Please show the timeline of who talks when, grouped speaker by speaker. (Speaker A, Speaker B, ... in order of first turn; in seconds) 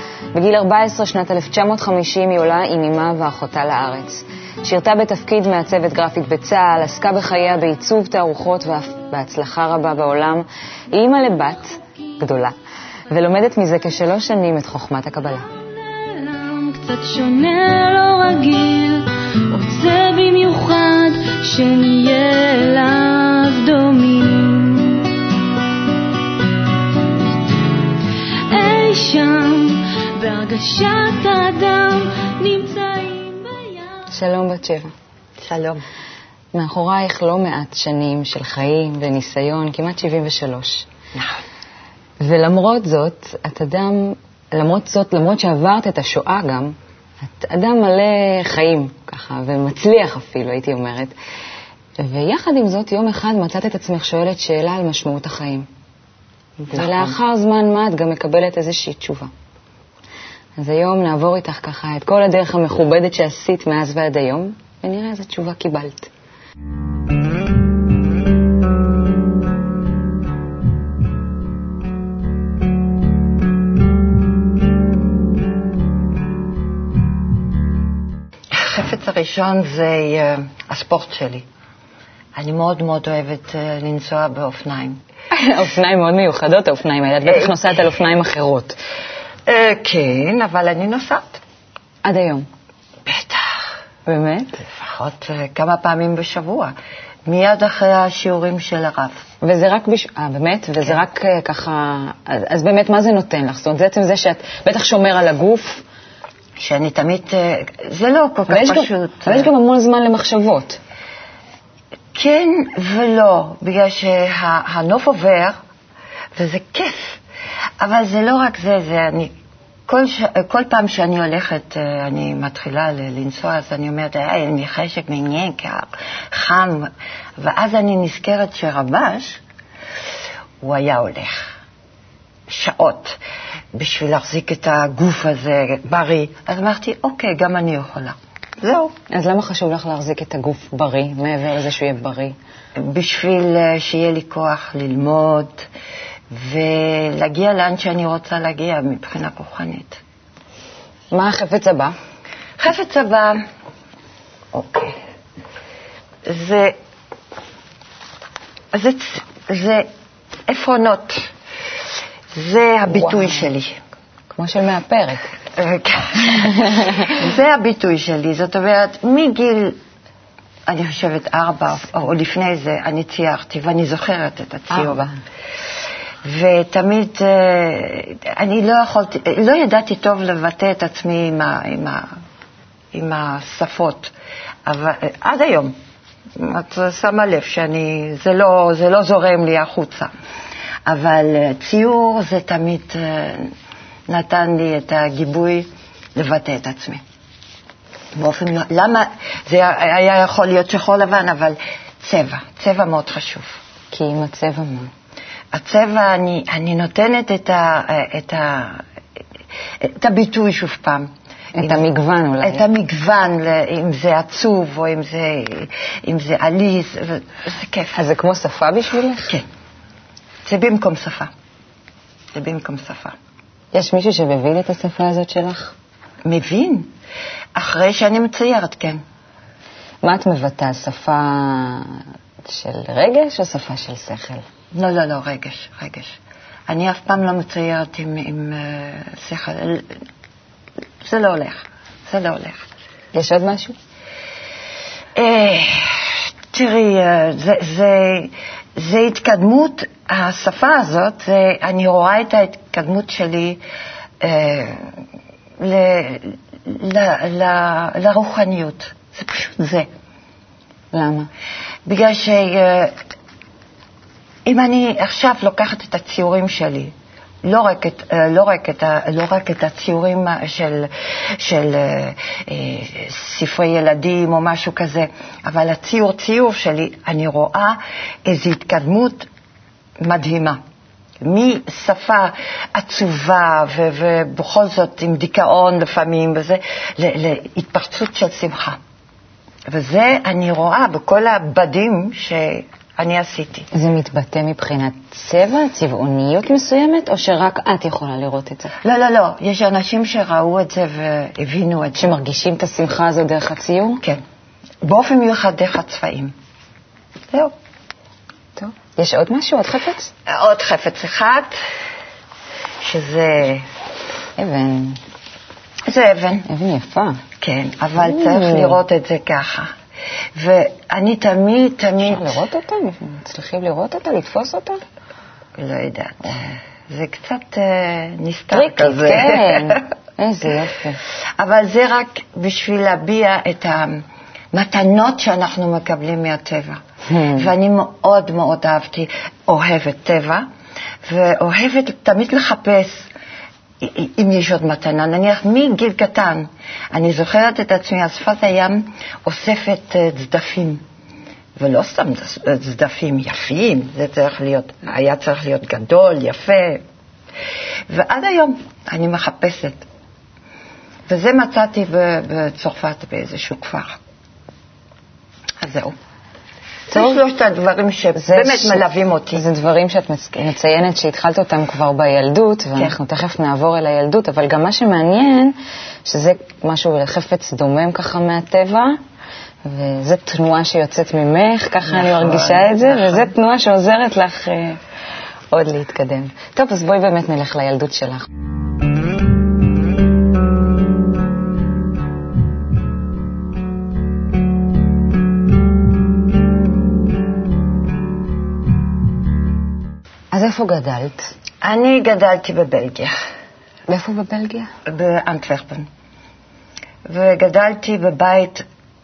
Speaker A: 0.3-12.6, 13.1-15.5, 34.1-34.9, 36.5-40.9, 42.2-51.1, 52.0-55.7, 56.7-59.3, 60.6-66.1, 85.3-88.8, 92.0-92.5, 94.1-94.6, 99.4-105.8, 108.5-110.8, 139.1-142.4, 151.1-152.0, 162.9-163.4, 164.3-165.3, 166.4-167.1, 174.8-175.1, 203.9-204.9, 211.6-212.6, 217.9-219.3, 223.7-225.7, 230.0-234.4, 243.1-243.8, 260.9-261.3, 293.7-298.7, 302.0-304.0, 308.6-310.1, 314.4-315.0, 316.5-317.2, 318.0-318.8, 322.1-324.8, 328.5-331.0, 337.1-337.5, 366.9-367.2, 368.2-368.8, 369.4-375.5, 376.1-379.0, 379.6-384.8, 385.5-388.3, 400.3-401.3, 403.9-404.7
Speaker B: 15.6-25.1, 28.5-34.1
Speaker C: 35.4-35.9, 41.1-41.4, 56.6-57.1, 78.5-81.5, 82.4-85.0, 89.5-91.4, 93.1-93.7, 94.6-96.7, 97.3-99.2, 106.6-109.5, 112.1-115.6, 116.4-117.2, 117.8-119.3, 119.9-129.4, 130.6-131.5, 132.5-133.2, 133.8-138.9, 142.8-145.7, 146.3-150.0, 152.6-153.4, 154.5-155.0, 156.2-156.8, 158.7-159.9, 160.5-161.3, 162.3-163.8, 165.6-169.8, 170.7-175.1, 176.2-182.1, 182.9-184.1, 184.7-185.7, 186.4-190.1, 190.9-193.5, 194.1-197.0, 198.2-203.6, 205.5-208.8, 209.8-211.9, 212.4-218.0, 220.5-221.3, 222.3-223.2, 226.2-226.9, 227.6-229.0, 234.7-236.2, 236.7-240.0, 241.0-242.6, 245.2-253.6, 254.2-254.9, 255.6-259.9, 261.9-263.0, 264.5-279.3, 280.0-280.6, 281.2-288.8, 289.7-293.7, 298.8-302.2, 304.8-306.3, 310.3-311.6, 312.8-313.7, 315.9-316.5, 317.4-319.7, 320.4-322.4, 325.6-329.8, 331.4-340.5, 341.1-343.1, 343.8-350.8, 351.6-356.8, 357.9-359.8, 361.1-364.0, 365.6-365.9, 366.9-369.4, 381.9-383.3, 401.6-403.1, 404.9-405.9, 407.1-408.7